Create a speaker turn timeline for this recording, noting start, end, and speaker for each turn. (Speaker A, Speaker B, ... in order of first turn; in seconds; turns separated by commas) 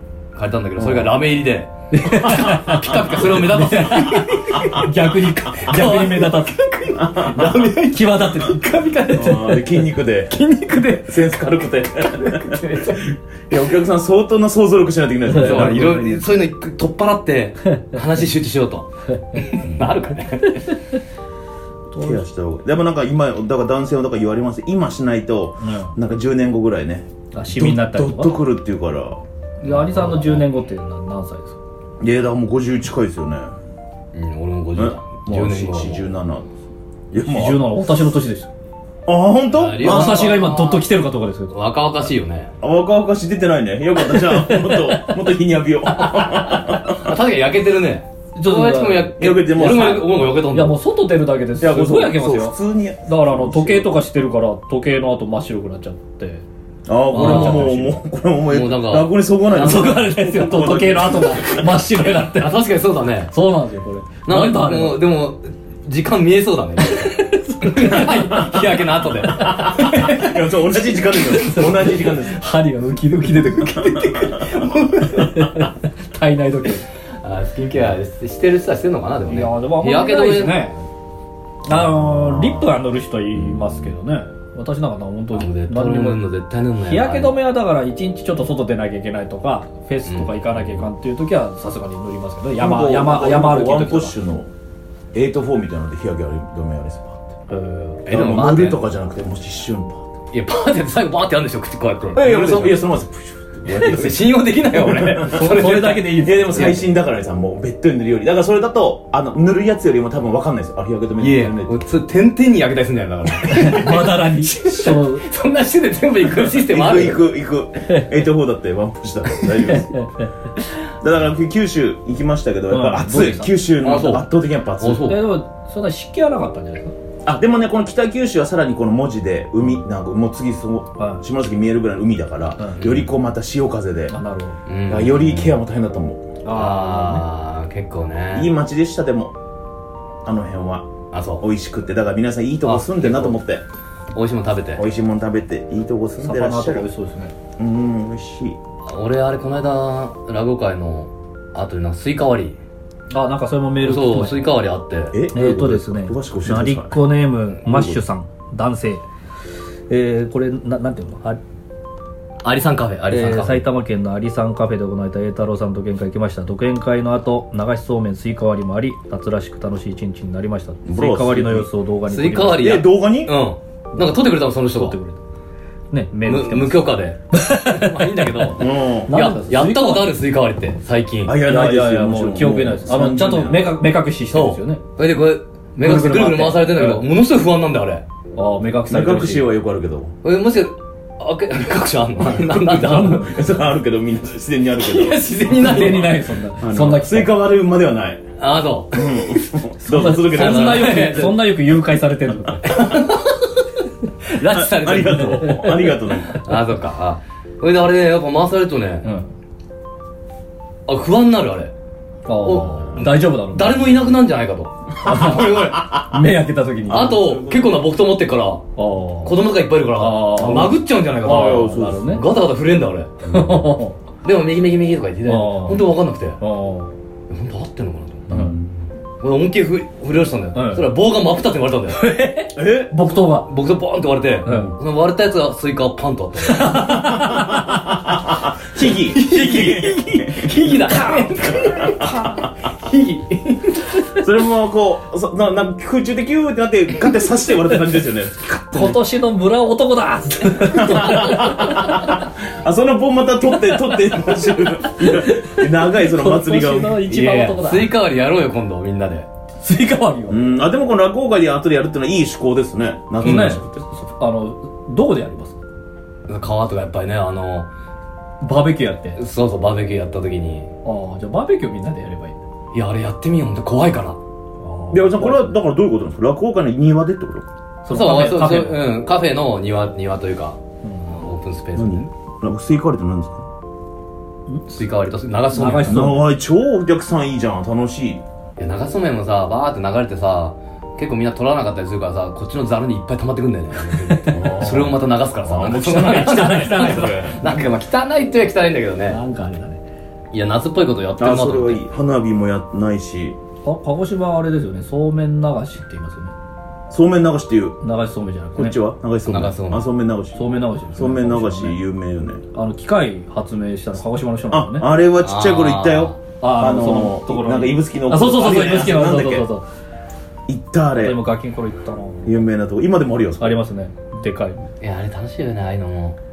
Speaker A: 0.3-4.9, Speaker B: 0.8-1.1, Speaker B: 1.9-6.6, Speaker C: 2.5-3.3, Speaker A: 5.5-9.5, Speaker C: 7.0-7.6, Speaker B: 7.9-9.7, Speaker C: 9.1-10.4, Speaker A: 10.3-11.2, Speaker C: 11.0-16.4, Speaker A: 12.2-13.0, Speaker A: 15.3-20.8, Speaker B: 15.3-15.7, Speaker C: 19.6-19.9, Speaker B: 21.9-22.2, Speaker C: 22.0-29.2, Speaker B: 25.6-25.9, Speaker B: 27.3-28.4, Speaker A: 29.6-30.4, Speaker B: 29.6-31.6, Speaker C: 32.0-33.5, Speaker A: 34.1-36.1, Speaker C: 34.8-36.5, Speaker C: 37.1-37.7, Speaker B: 37.2-38.5, Speaker C: 39.1-40.4, Speaker A: 39.5-40.9, Speaker B: 39.8-41.6, Speaker A: 41.5-42.5, Speaker C: 42.6-47.2, Speaker B: 44.0-45.1, Speaker A: 45.9-50.8, Speaker B: 48.4-56.4, Speaker C: 49.2-50.3, Speaker C: 51.6-53.9, Speaker C: 56.9-61.8, Speaker B: 57.1-58.0, Speaker A: 57.1-57.7, Speaker A: 58.5-60.0, Speaker B: 59.5-62.6, Speaker A: 62.2-63.3, Speaker B: 63.3-65.0, Speaker A: 64.3-70.2, Speaker B: 67.0-68.4, Speaker C: 68.2-68.7, Speaker C: 69.2-72.4, Speaker B: 69.2-70.3, Speaker B: 71.0-74.4, Speaker A: 73.5-75.6, Speaker B: 75.1-76.8, Speaker A: 77.2-80.7, Speaker B: 79.3-80.8, Speaker B: 81.6-86.2, Speaker C: 81.7-82.7, Speaker C: 83.4-83.8, Speaker A: 85.3-87.3, Speaker B: 86.8-94.2, Speaker A: 90.1-90.8, Speaker C: 92.6-94.5, Speaker C: 95.1-97.2, Speaker B: 97.5-98.1, Speaker A: 98.0-98.8, Speaker C: 98.1-100.0, Speaker A: 100.3-102.9, Speaker C: 102.1-111.8, Speaker A: 103.7-106.7, Speaker B: 105.3-106.9, Speaker A: 111.2-117.2, Speaker B: 113.5-115.3, Speaker C: 116.5-120.0, Speaker B: 119.7-120.3, Speaker C: 120.9-125.1, Speaker B: 122.7-123.5, Speaker A: 123.8-124.2, Speaker A: 124.8-125.2, Speaker B: 125.0-126.9, Speaker C: 127.2-134.2, Speaker B: 131.0-131.2, Speaker A: 132.8-133.1, Speaker B: 134.1-134.6, Speaker A: 134.7-135.6, Speaker C: 134.9-136.2, Speaker B: 136.4-137.2, Speaker A: 136.5-138.5, Speaker C: 138.3-139.3, Speaker C: 140.2-143.6, Speaker A: 141.1-141.4, Speaker A: 142.6-143.4, Speaker A: 144.1-144.8, Speaker C: 144.8-146.8, Speaker B: 146.2-147.3, Speaker C: 147.6-148.6, Speaker A: 148.8-152.6, Speaker B: 153.1-154.4, Speaker A: 153.8-155.1, Speaker C: 155.1-157.0, Speaker B: 155.3-159.0, Speaker C: 157.6-158.0, Speaker B: 159.9-161.4, Speaker A: 162.4-163.6, Speaker B: 163.1-172.8, Speaker C: 170.8-171.7, Speaker A: 172.1-174.9, Speaker C: 172.5-173.4, Speaker B: 173.9-174.2, Speaker B: 174.7-175.2, Speaker B: 175.9-178.6, Speaker A: 176.2-181.3, Speaker C: 178.6-179.1, Speaker B: 179.1-180.1, Speaker C: 181.2-183.8, Speaker B: 181.4-184.8, Speaker A: 184.3-188.0, Speaker B: 185.8-187.0, Speaker B: 188.3-189.5, Speaker C: 188.9-190.1, Speaker A: 190.2-193.3, Speaker B: 192.5-193.2, Speaker C: 192.8-198.2, Speaker A: 194.8-196.2, Speaker B: 195.4-197.3, Speaker A: 198.4-201.5, Speaker C: 198.9-201.2, Speaker B: 199.8-202.8, Speaker A: 202.6-203.6, Speaker A: 204.2-205.7, Speaker C: 204.4-206.4, Speaker B: 205.3-206.0, Speaker A: 206.3-209.1, Speaker B: 209.0-209.3, Speaker A: 210.9-211.7, Speaker B: 212.3-213.9, Speaker A: 212.4-216.1, Speaker B: 215.0-217.2, Speaker A: 216.9-218.6, Speaker C: 216.9-217.8, Speaker B: 218.8-219.4, Speaker A: 219.2-223.1, Speaker B: 219.9-222.2, Speaker C: 221.2-222.2, Speaker B: 223.3-224.0, Speaker C: 223.3-223.6, Speaker A: 224.2-226.4, Speaker B: 225.2-226.9, Speaker A: 227.3-228.3, Speaker C: 228.3-228.7, Speaker B: 228.3-228.6, Speaker A: 229.2-232.0, Speaker B: 230.5-230.9, Speaker B: 231.9-233.5, Speaker C: 232.5-232.9, Speaker A: 233.1-237.0, Speaker B: 234.4-234.7, Speaker B: 236.4-238.0, Speaker C: 236.8-240.7, Speaker A: 238.8-243.8, Speaker B: 239.2-242.5, Speaker C: 241.4-242.2, Speaker C: 244.1-249.0, Speaker B: 248.7-252.1, Speaker C: 250.7-257.1, Speaker B: 255.0-257.9, Speaker A: 257.1-259.3, Speaker B: 259.6-260.4, Speaker C: 260.3-263.8, Speaker B: 263.2-265.6, Speaker A: 263.2-263.6, Speaker A: 266.3-267.7, Speaker B: 268.4-269.2, Speaker A: 269.2-270.7, Speaker B: 270.8-272.4, Speaker A: 272.7-274.2, Speaker B: 274.6-275.5, Speaker C: 274.9-277.4, Speaker B: 277.8-278.8, Speaker A: 277.9-282.1, Speaker B: 280.8-281.2, Speaker C: 281.7-283.4, Speaker B: 284.5-284.8, Speaker A: 284.8-286.1, Speaker B: 285.5-286.3, Speaker C: 285.8-288.2, Speaker A: 288.6-299.2, Speaker B: 293.9-294.6, Speaker C: 294.2-297.6, Speaker B: 295.6-297.4, Speaker B: 299.1-299.8, Speaker A: 300.3-301.8, Speaker C: 301.2-303.4, Speaker B: 303.6-306.3, Speaker C: 306.9-307.8, Speaker B: 307.8-308.8, Speaker C: 308.6-312.4, Speaker A: 309.2-309.8, Speaker B: 310.3-311.8, Speaker B: 312.5-314.9, Speaker C: 314.5-319.5, Speaker A: 315.2-316.2, Speaker B: 316.4-319.6, Speaker C: 320.5-321.2, Speaker B: 321.0-322.4, Speaker C: 322.2-323.6, Speaker B: 323.4-324.7, Speaker A: 324.8-326.2